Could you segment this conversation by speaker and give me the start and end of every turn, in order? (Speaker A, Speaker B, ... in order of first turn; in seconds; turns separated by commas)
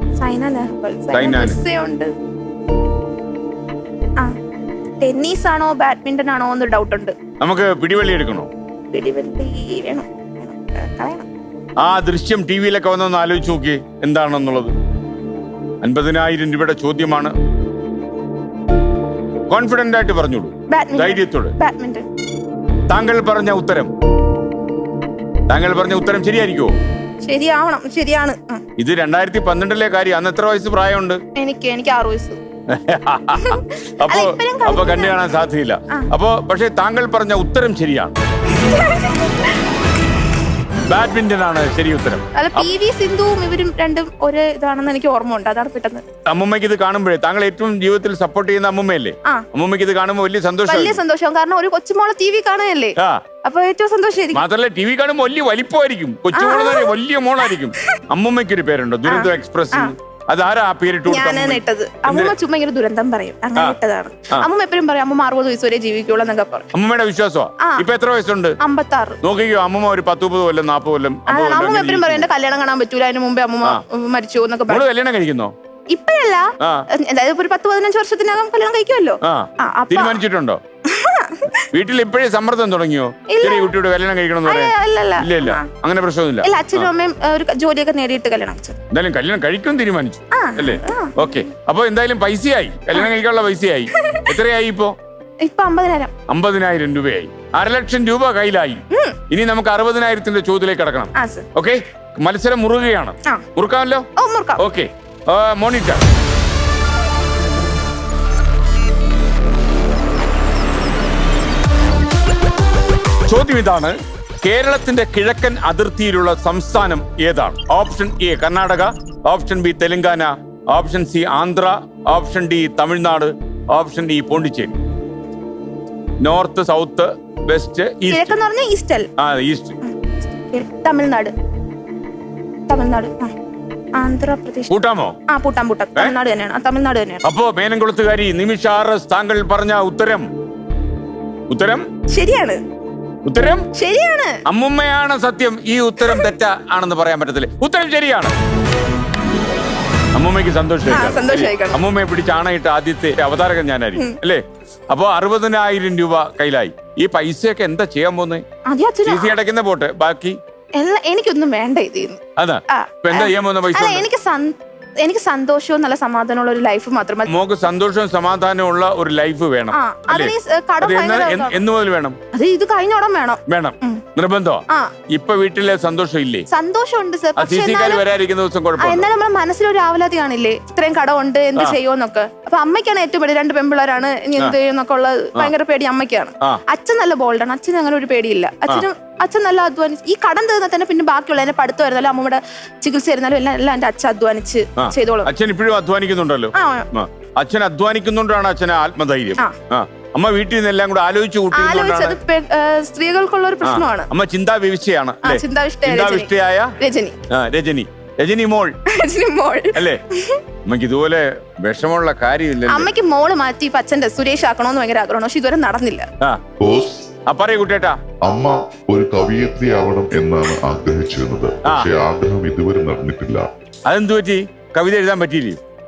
Speaker A: 0.2-2.1, Speaker B: 1.1-1.6, Speaker A: 5.0-7.1, Speaker B: 7.4-8.5, Speaker A: 8.9-11.2, Speaker B: 11.8-14.7, Speaker B: 15.8-17.3, Speaker B: 19.5-21.5, Speaker A: 20.7-22.0, Speaker B: 22.9-23.9, Speaker B: 25.5-26.7, Speaker A: 27.2-28.6, Speaker B: 28.8-31.2, Speaker A: 31.3-32.4, Speaker B: 32.7-38.1, Speaker A: 33.4-35.2, Speaker A: 38.5-39.5, Speaker B: 40.9-42.7, Speaker A: 42.3-46.0, Speaker B: 46.3-51.0, Speaker A: 50.7-54.4, Speaker B: 54.3-62.3, Speaker A: 56.3-57.0, Speaker A: 59.1-59.9, Speaker A: 61.1-66.7, Speaker B: 66.7-68.6, Speaker A: 68.6-69.2, Speaker B: 69.2-72.3, Speaker A: 71.3-74.8, Speaker B: 74.7-75.5, Speaker A: 75.9-80.2, Speaker B: 79.2-80.6, Speaker A: 80.8-81.6, Speaker B: 81.7-86.9, Speaker A: 83.3-83.7, Speaker A: 84.4-85.6, Speaker A: 86.4-88.8, Speaker B: 88.9-94.9, Speaker A: 90.3-91.4, Speaker A: 93.9-94.3, Speaker A: 95.4-96.1, Speaker B: 96.3-104.1, Speaker A: 98.9-99.2, Speaker A: 101.2-101.5, Speaker A: 104.2-104.6, Speaker B: 104.6-106.0, Speaker B: 113.3-124.8, Speaker B: 126.2-128.3, Speaker A: 128.1-129.1, Speaker B: 129.2-129.7, Speaker A: 129.8-131.3, Speaker A: 132.7-133.3, Speaker A: 133.9-134.7, Speaker B: 134.7-135.1, Speaker A: 135.3-137.2, Speaker B: 137.2-140.3, Speaker B: 141.5-141.8, Speaker A: 142.1-142.6, Speaker B: 143.2-143.7, Speaker A: 143.7-144.3, Speaker B: 144.4-148.3, Speaker B: 150.1-158.4, Speaker A: 150.9-151.8, Speaker A: 158.7-159.4, Speaker B: 159.1-160.3, Speaker A: 160.8-167.3, Speaker B: 162.3-164.1, Speaker B: 167.3-172.2, Speaker A: 169.7-171.6, Speaker A: 172.3-174.0, Speaker B: 173.5-176.4, Speaker A: 176.5-178.0, Speaker B: 177.4-179.1, Speaker A: 178.8-195.3, Speaker B: 194.8-202.2, Speaker A: 196.5-196.9, Speaker A: 201.5-204.1, Speaker B: 203.6-206.7, Speaker A: 205.2-207.2, Speaker B: 207.3-208.7, Speaker A: 208.9-210.4, Speaker B: 209.7-210.0, Speaker B: 210.7-212.9, Speaker A: 212.7-216.1, Speaker C: 216.6-217.1, Speaker B: 217.3-218.0, Speaker C: 218.2-223.5, Speaker B: 223.9-225.6